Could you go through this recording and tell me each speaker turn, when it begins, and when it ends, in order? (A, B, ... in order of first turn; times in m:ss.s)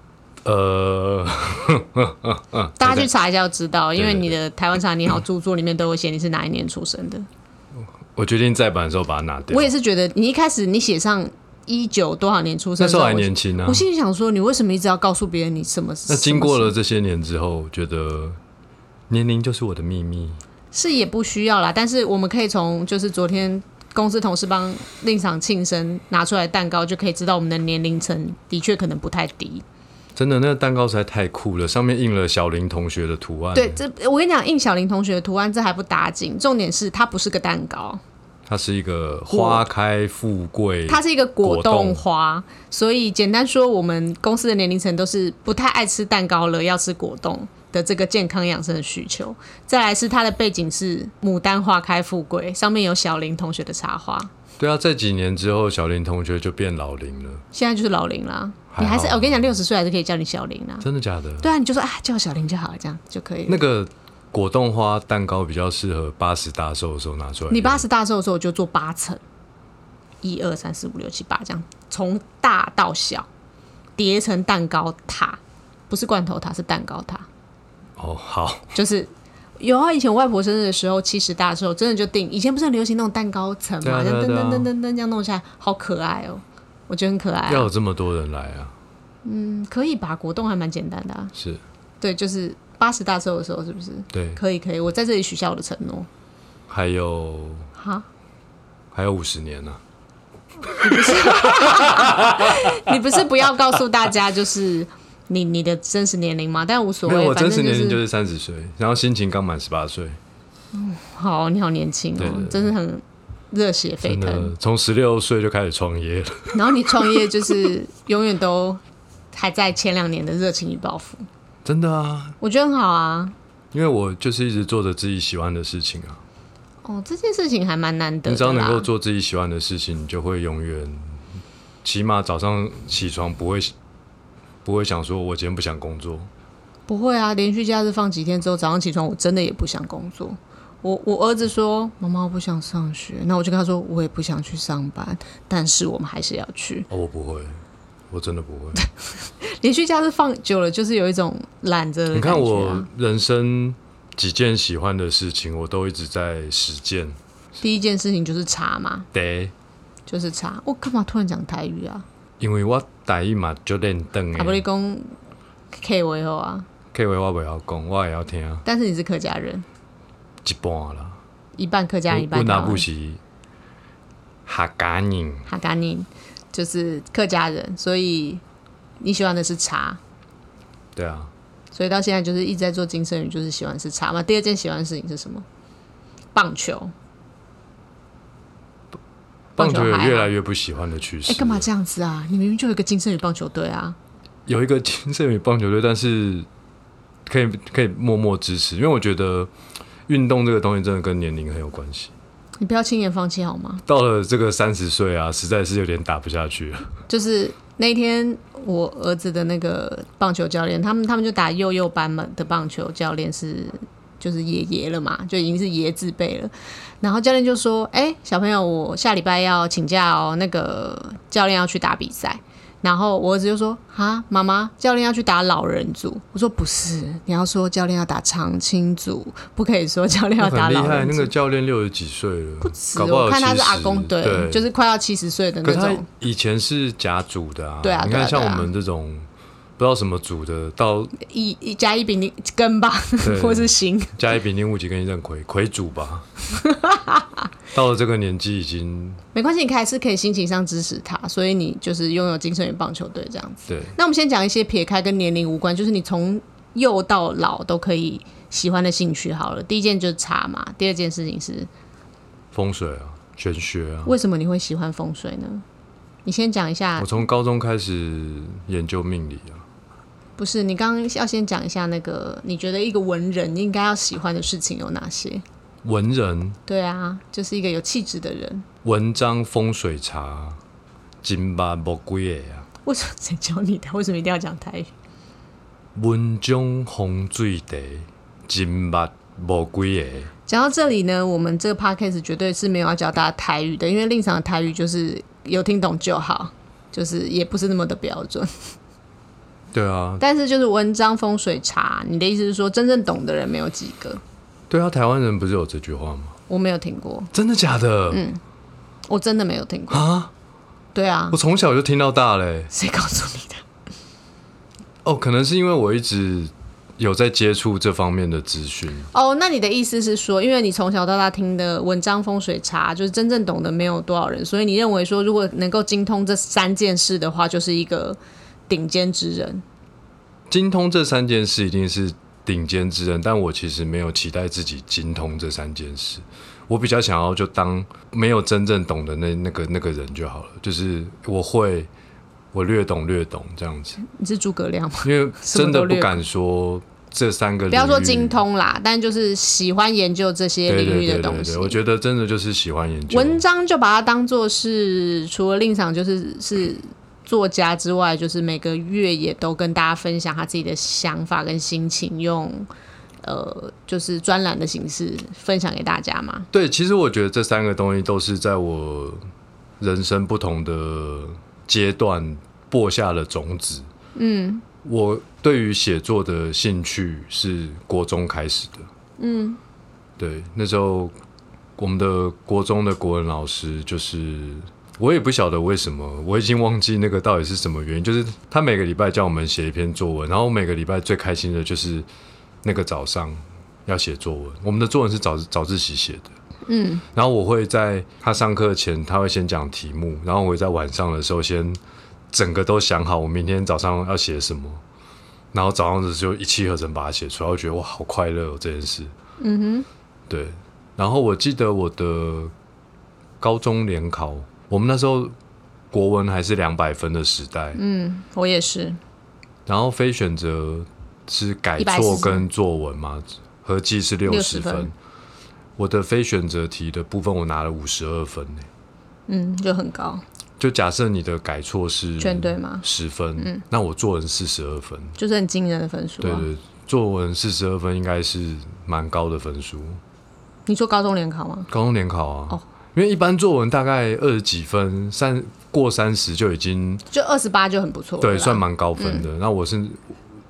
0:00.4-0:03.1 A
0:02.8-0:07.3 B
0:04.0-0:04.4 A
0:08.1-0:09.7 A
0:09.5-0:16.7 B
0:12.8-0:13.8 A
0:16.1-0:18.4 A
0:19.1-0:20.4 A
0:20.7-0:29.6 B
0:30.2-0:33.8 A
0:33.5-0:38.0 B
0:38.5-0:42.0 A
0:39.3-0:39.6 B
0:40.9-0:54.3 B
0:54.6-0:57.4 A
0:57.5-1:00.8 B
0:58.7-0:59.4 A
1:00.8-1:01.5 A
1:01.4-1:03.6 B
1:03.5-1:07.8 A
1:07.5-1:09.2 B
1:10.2-1:13.3 B
1:14.0-1:17.3 B
1:18.0-1:18.7 A
1:18.7-1:27.7 B
1:23.8-1:24.7 A
1:27.5-1:28.7 A
1:29.2-1:31.3 B
1:31.3-1:31.6 A
1:32.0-1:36.1 B
1:34.1-1:34.4 A
1:36.7-1:37.7 A
1:37.8-1:38.0 B
1:38.9-1:39.8 A
1:40.7-1:42.9 A
1:40.8-1:48.0 B
1:47.0-1:50.2 A
1:50.7-1:54.5 B
1:52.2-1:52.7 A
1:54.0-1:57.7 A
1:56.5-1:58.8 B
1:59.3-2:01.2 B
2:01.6-2:02.4 A
2:02.4-2:03.3 B
2:03.7-2:06.2 A
2:06.8-2:08.9 B
2:08.2-2:11.2 A
2:11.8-2:13.7 A
2:14.6-2:16.3 A
2:16.9-2:26.9 B
2:26.9-2:28.8 A
2:28.8-2:32.9 B
2:32.1-2:37.2 A
2:37.6-2:39.1 B
2:39.1-2:39.5 A
2:40.1-2:42.0 B
2:42.4-2:44.6 A
2:44.4-2:45.1 B
2:45.7-2:46.7 B
2:46.9-2:48.6 A
2:48.6-2:49.6 B
2:50.4-2:51.2 A
2:51.6-2:52.8 B
2:52.1-2:53.2 A
2:54.4-2:55.5 A
2:55.5-2:58.4 B
2:59.0-3:00.0 B
3:01.0-3:01.3 A
3:01.7-3:05.4 B
3:06.3-3:06.9 B
3:09.6-3:10.3 B
3:09.6-3:11.7 A
3:11.3-3:14.0 B
3:14.4-3:16.5 A
3:17.2-3:19.5 A
3:20.1-3:22.1 A
3:22.6-3:23.8 B
3:23.8-3:26.9 A
3:27.1-3:51.3 B
3:50.4-3:54.7 A
3:52.6-3:56.0 B
3:55.6-4:01.1 A
3:57.8-3:58.7 B
4:01.2-4:04.2 B
4:03.2-4:06.3 A
4:06.5-4:07.5 B
4:07.7-4:09.2 A
4:09.3-4:21.7 B
4:13.7-4:13.9 A
4:22.5-4:24.1 A
4:24.0-4:25.6 B
4:26.2-4:27.2 B
4:27.0-4:29.6 A
4:30.4-4:35.4 B
4:35.8-4:36.6 A
4:36.7-4:38.6 B
4:38.8-4:40.6 A
4:41.2-4:42.7 A
4:42.8-4:44.9 B
4:45.9-4:50.3 A
4:50.5-4:58.7 B
4:59.7-5:00.2 A
5:00.2-5:04.2 B
5:04.7-5:06.4 A
5:06.5-5:07.3 B
5:07.3-5:08.2 A
5:08.1-5:08.4 B
5:09.1-5:10.0 B
5:09.9-5:10.3 A
5:10.9-5:11.4 B
5:11.3-5:12.7 A
5:12.7-5:13.6 B
5:15.0-5:19.1 A
5:19.1-5:29.6 B
5:30.5-5:41.9 A
5:42.5-5:44.0 A
5:44.0-5:46.2 B
5:45.0-5:48.4 A
5:47.7-5:51.8 B
5:50.7-5:53.4 A
5:53.1-6:02.7 B
6:03.2-6:06.5 B
6:06.5-6:09.2 A
6:09.8-6:13.9 A
6:14.2-6:14.6 B
6:14.8-6:18.9 A
6:19.2-6:19.6 B
6:20.2-6:21.1 A
6:21.8-6:32.0 A
6:32.6-6:36.3 A
6:36.6-6:37.0 B
6:37.1-6:41.8 A
6:42.3-6:44.8 A
6:45.5-6:49.1 A
6:49.4-6:49.8 B
6:50.3-6:52.5 A
6:53.4-6:55.3 A
6:55.9-6:57.8 A
6:57.7-6:59.0 B
6:59.6-7:04.9 A
7:01.8-7:02.4 B
7:04.3-7:04.9 B
7:05.8-7:08.7 A
7:09.3-7:10.2 B
7:10.6-7:15.2 A
7:12.2-7:12.8 B
7:15.2-7:16.5 B
7:16.2-7:20.0 A
7:20.6-7:21.7 B
7:21.7-7:27.0 A
7:27.1-7:29.3 B
7:28.2-7:30.1 A